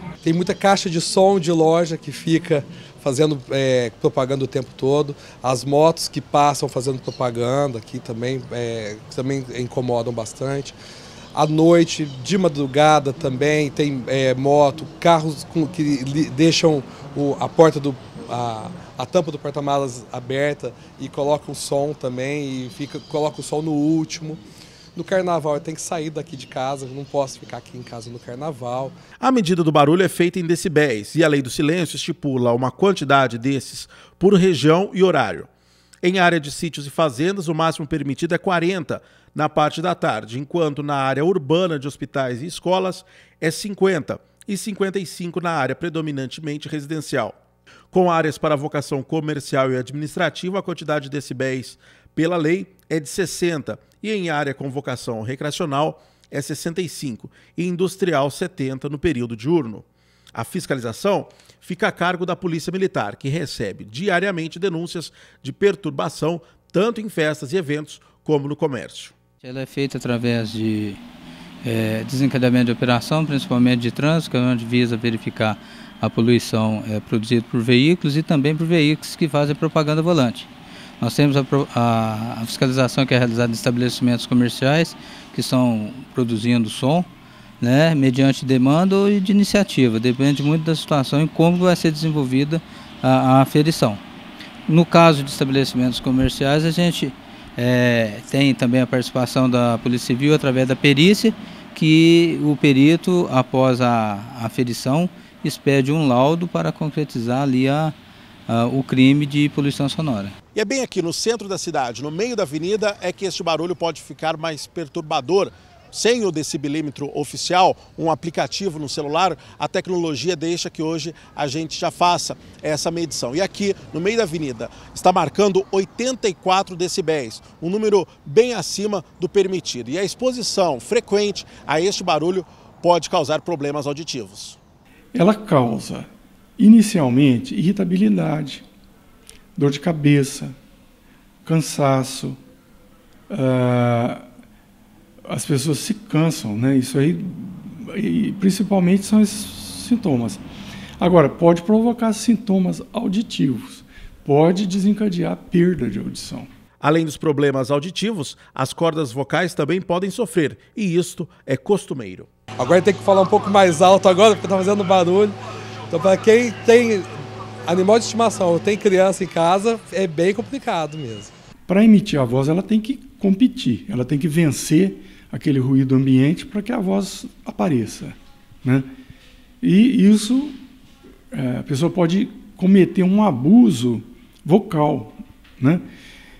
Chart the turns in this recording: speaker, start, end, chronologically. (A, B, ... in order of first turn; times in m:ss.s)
0:00.2-0:10.7 A
0:11.4-0:24.4 A
0:25.0-0:28.9 A
0:29.2-0:35.5 B
0:36.0-0:47.4 B
0:47.9-1:09.1 B
1:09.4-1:11.0 C
1:11.6-1:20.5 C
1:21.0-1:27.1 C
1:27.6-1:34.0 C
1:34.7-1:48.0 C
1:48.5-1:50.3 C
1:50.6-2:14.6 B
2:15.1-2:18.7 D
2:19.6-2:20.6 D
2:21.4-2:22.4 D
2:23.3-2:24.2 D
2:25.2-2:30.4 D
2:31.0-2:36.5 D
2:36.8-2:42.3 B
2:42.6-2:45.3 A
2:45.9-2:47.1 A
2:47.7-2:51.3 A
2:51.7-2:58.9 D
2:59.6-3:00.6 D
3:01.3-3:05.8 D